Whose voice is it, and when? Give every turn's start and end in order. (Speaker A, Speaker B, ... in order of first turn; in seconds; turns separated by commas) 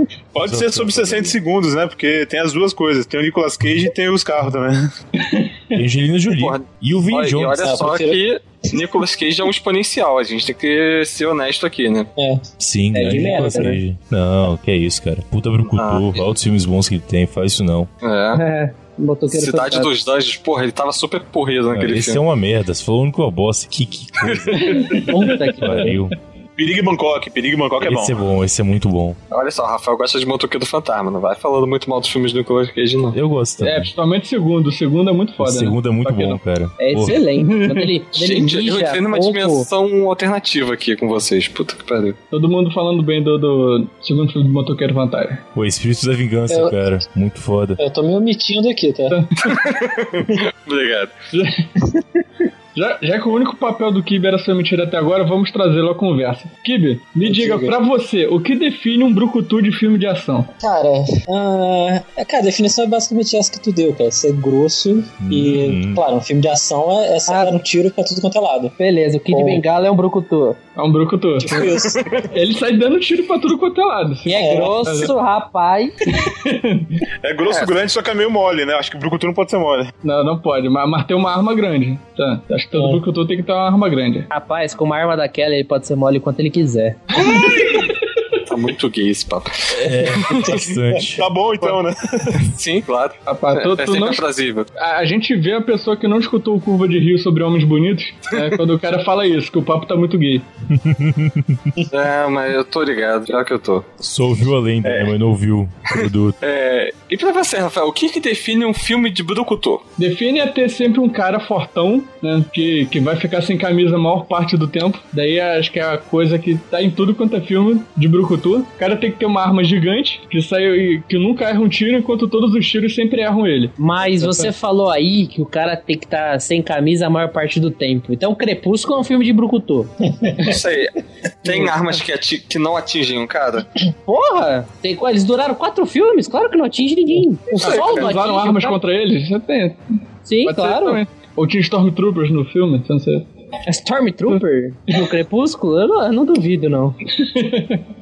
Speaker A: 0.3-4.9, Speaker B: 0.4-1.3, Speaker C: 5.2-5.8, Speaker B: 5.7-7.9, Speaker D: 6.3-12.1, Speaker E: 7.6-8.2, Speaker E: 12.2-13.8, Speaker B: 12.6-17.9, Speaker F: 13.0-13.8, Speaker D: 15.7-16.2, Speaker D: 18.0-18.4, Speaker F: 18.3-19.9, Speaker D: 19.3-22.2, Speaker B: 21.7-26.1, Speaker D: 24.2-24.5, Speaker C: 24.6-25.0, Speaker F: 24.9-25.9, Speaker A: 26.6-28.1, Speaker B: 27.8-29.2, Speaker D: 29.3-33.2, Speaker B: 33.1-33.9, Speaker C: 33.6-36.4, Speaker B: 35.4-37.2, Speaker F: 36.8-39.7, Speaker C: 37.4-37.9, Speaker D: 38.1-42.2, Speaker C: 42.3-45.4, Speaker B: 45.5-47.8, Speaker E: 46.5-46.7, Speaker E: 47.8-49.2, Speaker C: 49.1-49.5, Speaker D: 49.4-51.1, Speaker C: 51.3-51.7, Speaker C: 52.7-60.5, Speaker E: 57.2-57.8, Speaker E: 60.6-68.7, Speaker B: 65.2-66.0, Speaker F: 67.3-67.5, Speaker F: 68.8-70.6, Speaker E: 69.3-69.6, Speaker C: 70.8-71.7, Speaker E: 71.4-72.3, Speaker C: 72.3-75.1, Speaker F: 74.2-75.9, Speaker E: 74.3-75.0, Speaker C: 76.2-77.0, Speaker A: 77.2-79.9, Speaker D: 77.4-77.7, Speaker C: 80.0-84.3, Speaker E: 82.7-83.0, Speaker F: 84.3-87.0, Speaker C: 87.2-87.7, Speaker D: 87.3-87.8, Speaker D: 88.5-90.4, Speaker B: 89.8-91.2, Speaker A: 91.2-92.4, Speaker D: 92.5-94.7, Speaker C: 93.2-94.2, Speaker C: 94.7-100.5, Speaker B: 100.7-101.6, Speaker D: 101.9-103.9, Speaker B: 104.0-106.4, Speaker D: 104.8-105.1, Speaker D: 106.4-109.8, Speaker C: 110.0-124.5, Speaker F: 123.8-129.9, Speaker E: 130.2-130.5, Speaker D: 130.4-133.7, Speaker F: 134.1-138.8, Speaker C: 137.6-139.8, Speaker D: 137.6-138.1, Speaker F: 140.2-141.0, Speaker C: 140.4-143.2, Speaker F: 143.7-147.0, Speaker C: 147.2-147.8